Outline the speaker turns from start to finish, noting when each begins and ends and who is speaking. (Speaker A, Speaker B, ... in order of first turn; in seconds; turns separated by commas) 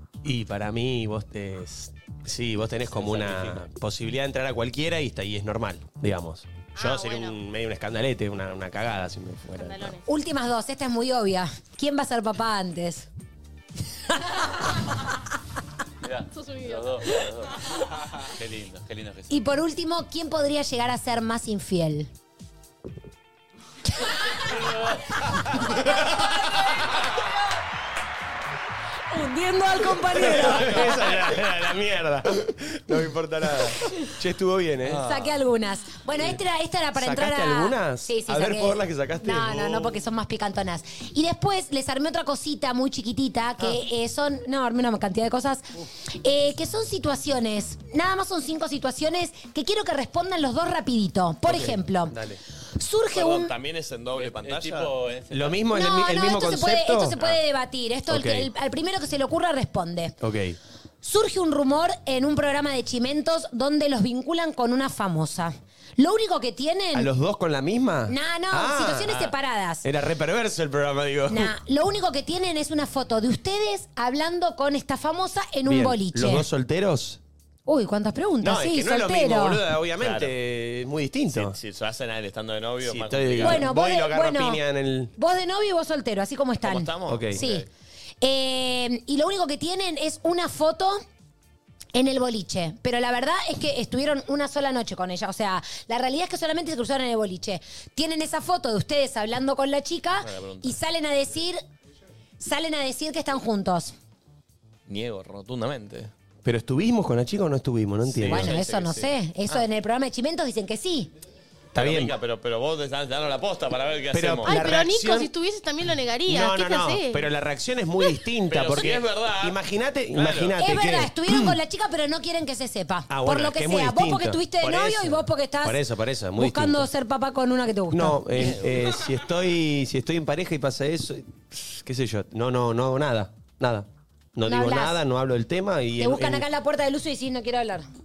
Speaker A: 0.2-10.0, Speaker B: 3.0-3.6, Speaker C: 6.8-7.4, Speaker C: 9.6-10.1, Speaker D: 10.1-13.1, Speaker E: 16.0-17.6, Speaker C: 16.3-17.1, Speaker E: 18.3-19.4, Speaker D: 19.3-22.1, Speaker D: 29.1-31.0, Speaker A: 30.1-35.0, Speaker B: 34.9-35.4, Speaker D: 35.0-52.2, Speaker A: 36.9-40.0, Speaker A: 51.5-52.4, Speaker D: 52.8-53.5, Speaker B: 53.1-54.9, Speaker E: 54.2-55.6, Speaker A: 55.3-57.2, Speaker D: 55.7-60.2, Speaker A: 58.1-58.5, Speaker A: 60.2-60.6, Speaker D: 61.0-67.1, Speaker A: 66.9-71.5, Speaker D: 68.1-69.9, Speaker D: 71.3-76.5, Speaker A: 75.7-77.2, Speaker D: 77.7-79.6, Speaker A: 78.4-81.6, Speaker B: 80.0-80.3, Speaker B: 81.3-83.7, Speaker A: 82.8-85.1, Speaker D: 83.4-84.6, Speaker D: 85.2-87.7, Speaker B: 86.6-87.7, Speaker A: 87.1-87.4, Speaker D: 88.2-91.0, Speaker D: 91.9-101.6, Speaker B: 100.2-100.8, Speaker D: 102.4-104.0, Speaker B: 104.9-106.1, Speaker A: 106.4-108.6, Speaker B: 108.1-109.6, Speaker D: 108.2-111.1, Speaker A: 111.7-112.2, Speaker B: 111.8-114.6, Speaker A: 114.1-115.3, Speaker C: 114.5-117.3, Speaker A: 116.3-121.6, Speaker B: 118.5-119.6, Speaker B: 120.1-120.6, Speaker D: 120.6-125.8, Speaker A: 123.1-126.9, Speaker D: 126.4-128.5, Speaker A: 127.9-136.5, Speaker D: 134.5-135.0, Speaker D: 136.0-137.9